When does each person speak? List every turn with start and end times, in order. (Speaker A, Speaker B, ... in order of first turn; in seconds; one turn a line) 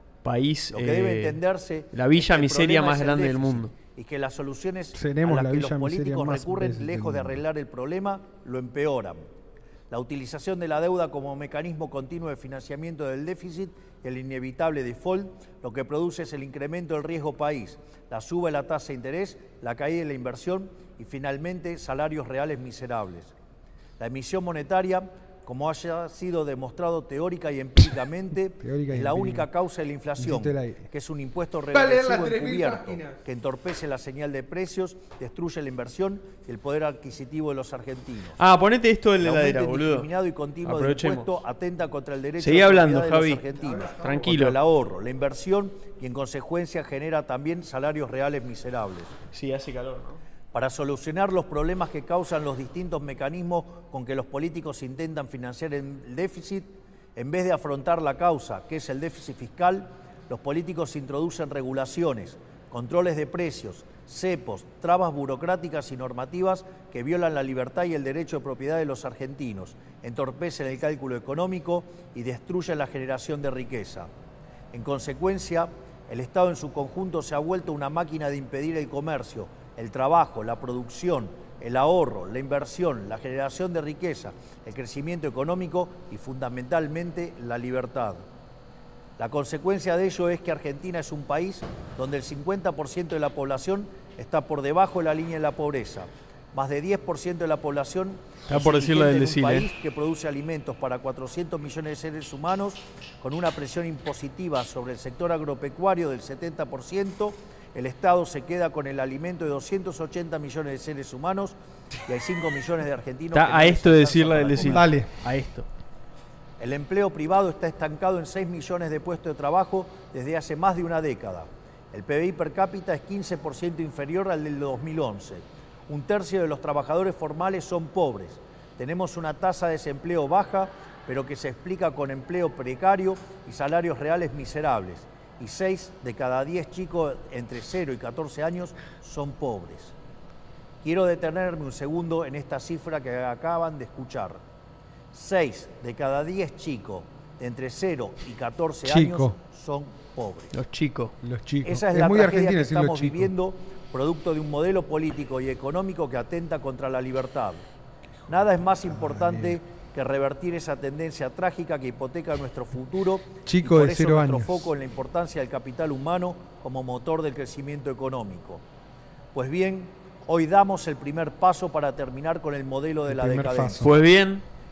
Speaker A: 0.2-1.4
Speaker B: 0.7-9.2
Speaker A: 1.9-3.7
Speaker C: 5.0-7.4
Speaker B: 9.9-23.3
Speaker B: 24.0-38.4
Speaker C: 28.6-29.5
Speaker C: 30.2-30.9
Speaker C: 31.7-33.2
Speaker A: 38.4-40.1
Speaker B: 39.2-49.1
Speaker A: 40.6-41.3
Speaker A: 42.4-43.4
Speaker C: 43.6-44.3
Speaker A: 44.0-44.6
Speaker A: 49.3-50.2
Speaker B: 50.5-74.1
Speaker B: 74.7-88.3
Speaker B: 89.2-111.5
Speaker A: 98.5-99.7
Speaker B: 112.1-114.9
Speaker A: 113.3-115.7
Speaker C: 114.6-115.1
Speaker B: 116.6-139.9
Speaker B: 140.8-144.4
Speaker B: 145.1-150.6
Speaker C: 148.9-149.3
Speaker A: 150.5-151.2
Speaker C: 151.2-153.3
Speaker B: 151.6-157.7
Speaker C: 158.2-159.6
Speaker B: 158.3-168.6
Speaker C: 163.5-164.7
Speaker B: 169.3-173.9
Speaker C: 173.1-173.9
Speaker A: 173.8-174.4